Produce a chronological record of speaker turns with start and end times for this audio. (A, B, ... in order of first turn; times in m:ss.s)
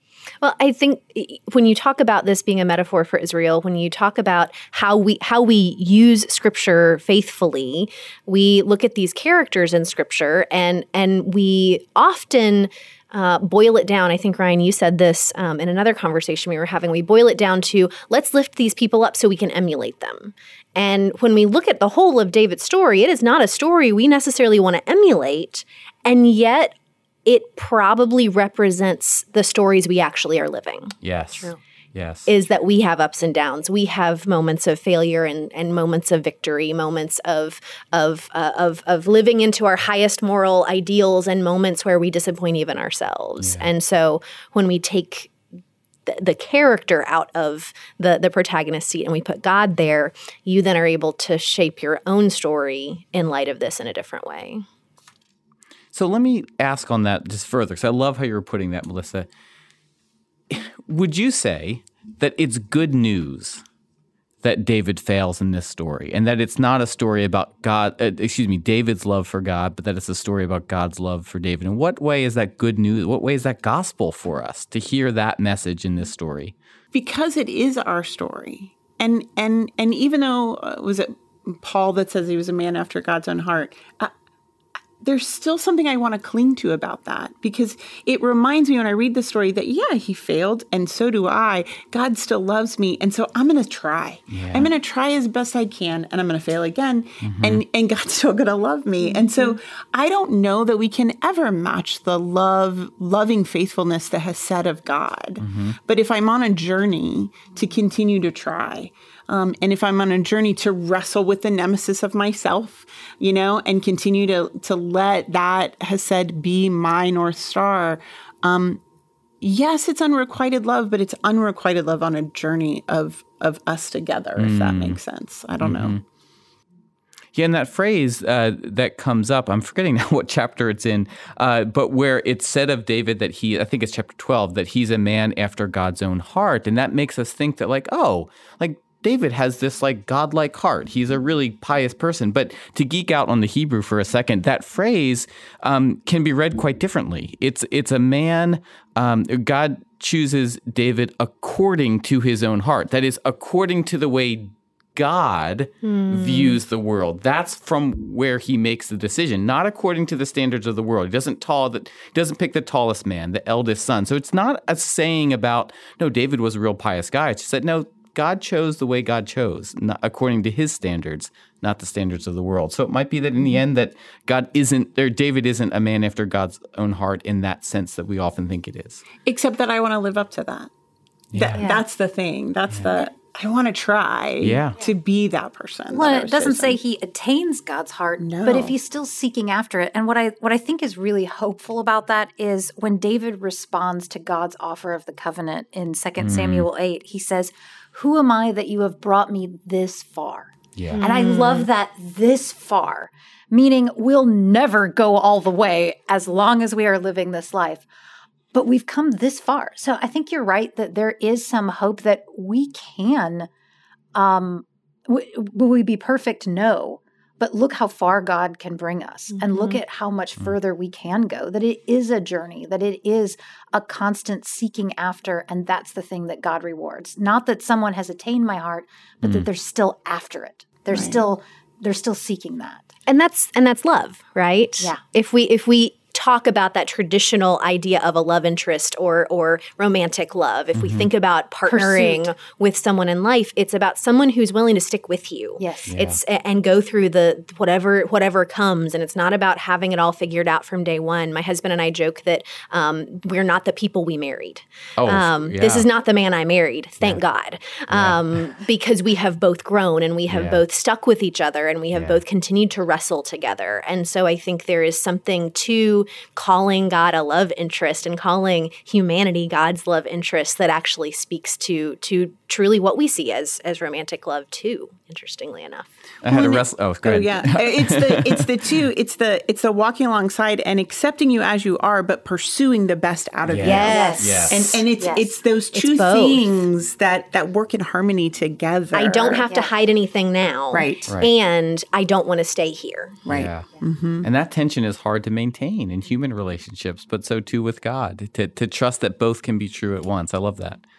0:00.4-0:26.7 A
0:27.2-0:31.6 A
0:31.0-0:32.3 B
0:32.2-0:45.3 A
0:43.4-0:43.7 B
0:46.1-0:54.6 A
0:55.9-0:59.3 B
1:00.5-1:03.6 B
1:04.4-1:16.5 B
1:16.9-1:24.1 C
1:25.0-1:58.8 C
1:34.3-1:34.7 B
1:37.2-1:37.6 B
1:45.4-1:45.8 B
1:59.4-2:06.0 C
2:04.4-2:05.0 B
2:05.6-2:06.0 B
2:07.3-2:59.0 B
2:35.8-2:36.6 A
2:59.2-3:00.7 C
3:01.3-3:01.6 B
3:01.3-3:06.8 C
3:01.5-3:01.8 D
3:02.7-3:02.9 B
3:04.4-3:04.7 B
3:05.9-3:27.9 D
3:08.2-3:08.7 C
3:16.2-3:16.7 B
3:20.9-3:21.7 A
3:28.5-3:33.5 D
3:34.1-3:52.9 D
3:39.4-3:39.8 A
3:50.9-3:51.2 C
3:53.1-4:35.9 A
4:00.7-4:01.1 B
4:01.7-4:02.3 D
4:05.6-4:05.9 D
4:05.9-4:06.2 B
4:15.0-4:15.9 B
4:17.9-4:18.4 B
4:20.3-4:20.6 B
4:21.9-4:22.2 B
4:36.2-4:38.4 B
4:36.3-4:49.5 C
4:43.4-4:44.8 B
4:43.6-4:44.8 A
4:43.8-4:45.3 D
4:45.7-4:46.5 A
4:48.9-4:53.2 A
4:49.4-4:49.7 D
4:50.7-4:51.1 C
4:53.2-4:54.3 C
4:53.3-4:53.7 B
4:54.2-5:00.8 B